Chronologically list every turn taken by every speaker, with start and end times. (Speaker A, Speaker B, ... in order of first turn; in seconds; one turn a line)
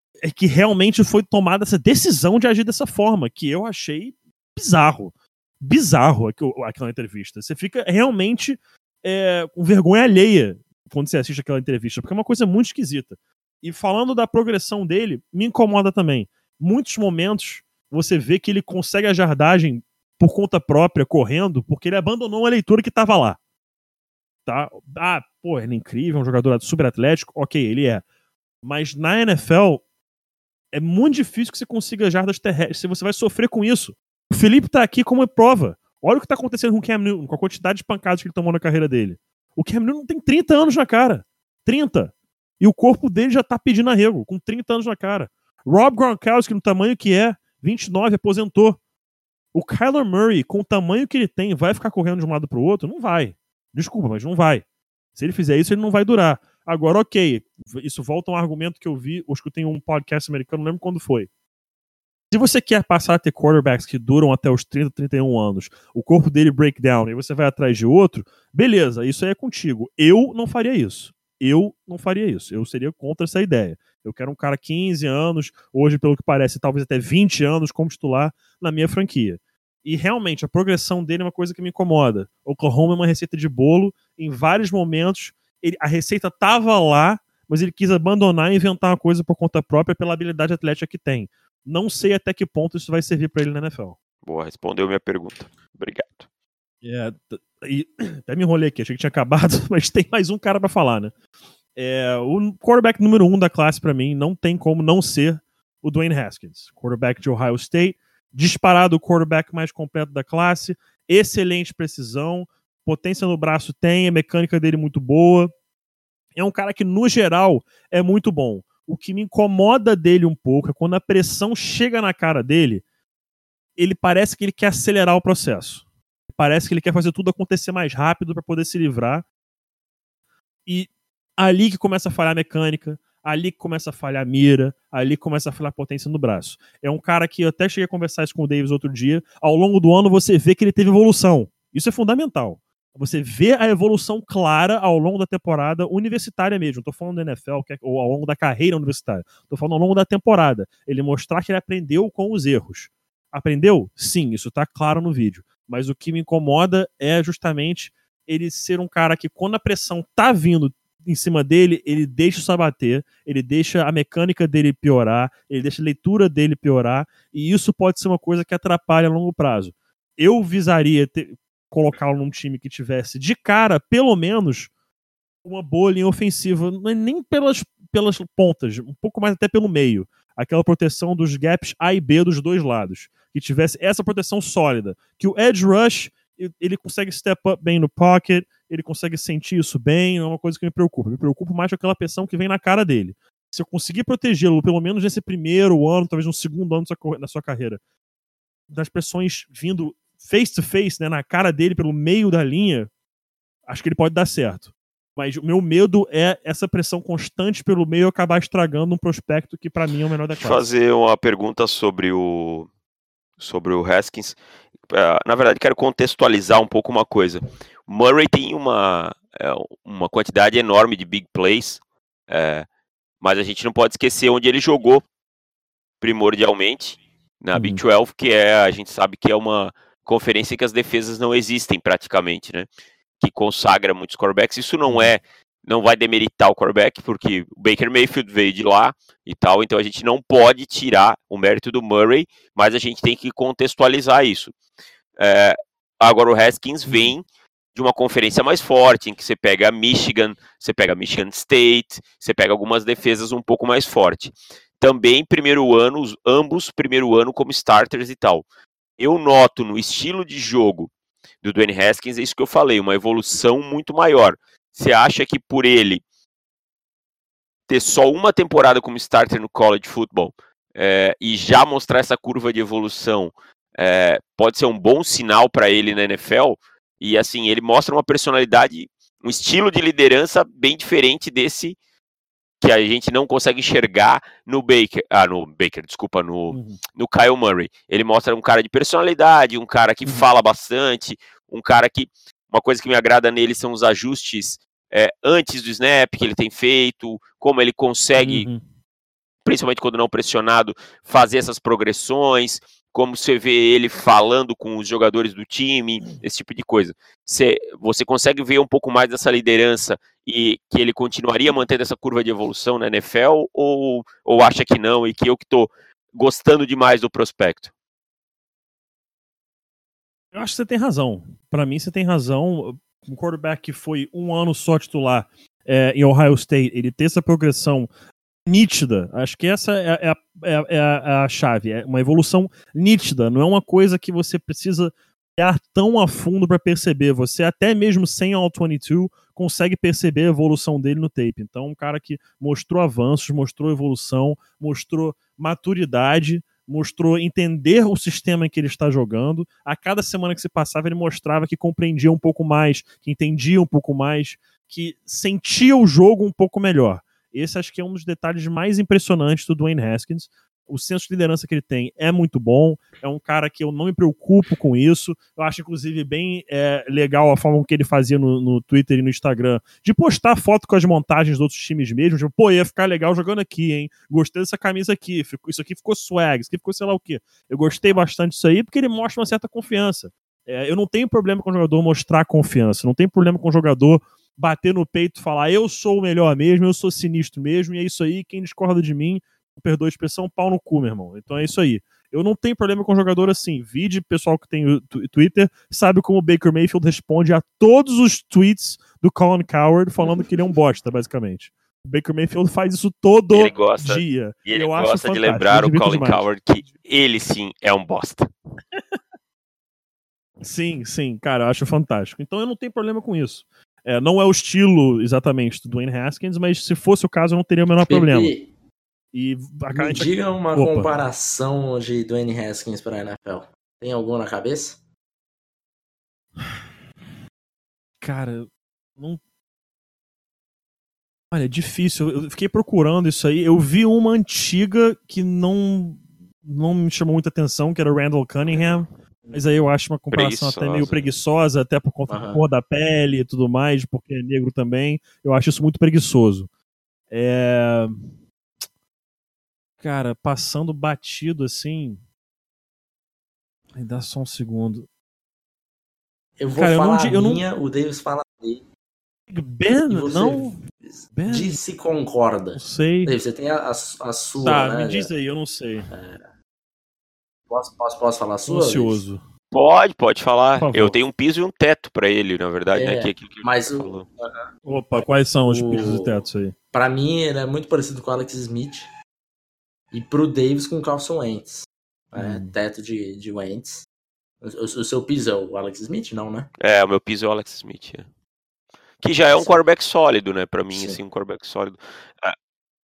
Speaker A: 0.2-23.4
Speaker A: 24.5-28.0
Speaker A: 28.6-29.8
Speaker A: 30.7-48.8
Speaker A: 49.5-54.6
Speaker A: 55.1-61.3
Speaker A: 62.3-94.0
Speaker B: 94.2-96.3
Speaker A: 96.8-101.1
Speaker A: 101.8-115.5
Speaker A: 116.4-122.8
Speaker A: 123.8-129.2
Speaker A: 130.7-174.7
Speaker A: 175.4-197.8
Speaker A: 198.7-202.9
Speaker A: 203.7-210.7
Speaker B: 210.3-212.7
Speaker B: 213.4-222.7
Speaker B: 223.2-225.1
Speaker B: 226.0-232.7
Speaker A: 227.6-227.8
Speaker B: 233.2-244.5
Speaker A: 234.8-235.1
Speaker B: 245.2-258.4
Speaker A: 246.9-247.1
Speaker B: 259.0-260.9
Speaker B: 261.4-266.0
Speaker B: 267.7-281.8
Speaker B: 282.6-298.5
Speaker A: 286.5-286.8
Speaker A: 298.2-298.6
Speaker B: 299.4-317.7
Speaker A: 320.3-327.9
Speaker A: 328.5-406.3
Speaker C: 400.1-400.5
Speaker B: 403.3-408.3
Speaker A: 410.4-418.3
Speaker C: 417.9-418.5
Speaker A: 419.1-421.0
Speaker C: 419.7-424.8
Speaker A: 428.0-429.2
Speaker A: 431.3-446.5
Speaker B: 438.5-438.8
Speaker B: 440.1-441.1
Speaker C: 442.1-442.4
Speaker A: 447.1-448.2
Speaker A: 449.8-452.0
Speaker A: 453.8-454.9
Speaker C: 456.4-458.7
Speaker A: 456.6-457.4
Speaker A: 459.3-460.6
Speaker C: 459.9-465.1
Speaker A: 461.1-461.6
Speaker A: 462.6-463.1
Speaker A: 464.4-465.9
Speaker C: 465.9-466.3
Speaker C: 467.5-469.0
Speaker A: 468.5-469.2
Speaker B: 469.5-474.1
Speaker A: 470.6-471.0
Speaker C: 472.7-474.5
Speaker A: 474.6-476.5
Speaker C: 475.5-478.9
Speaker C: 479.9-483.9
Speaker A: 482.2-482.6
Speaker C: 484.4-486.5
Speaker B: 486.6-488.1
Speaker B: 489.0-492.4
Speaker C: 489.3-489.6
Speaker C: 490.7-491.0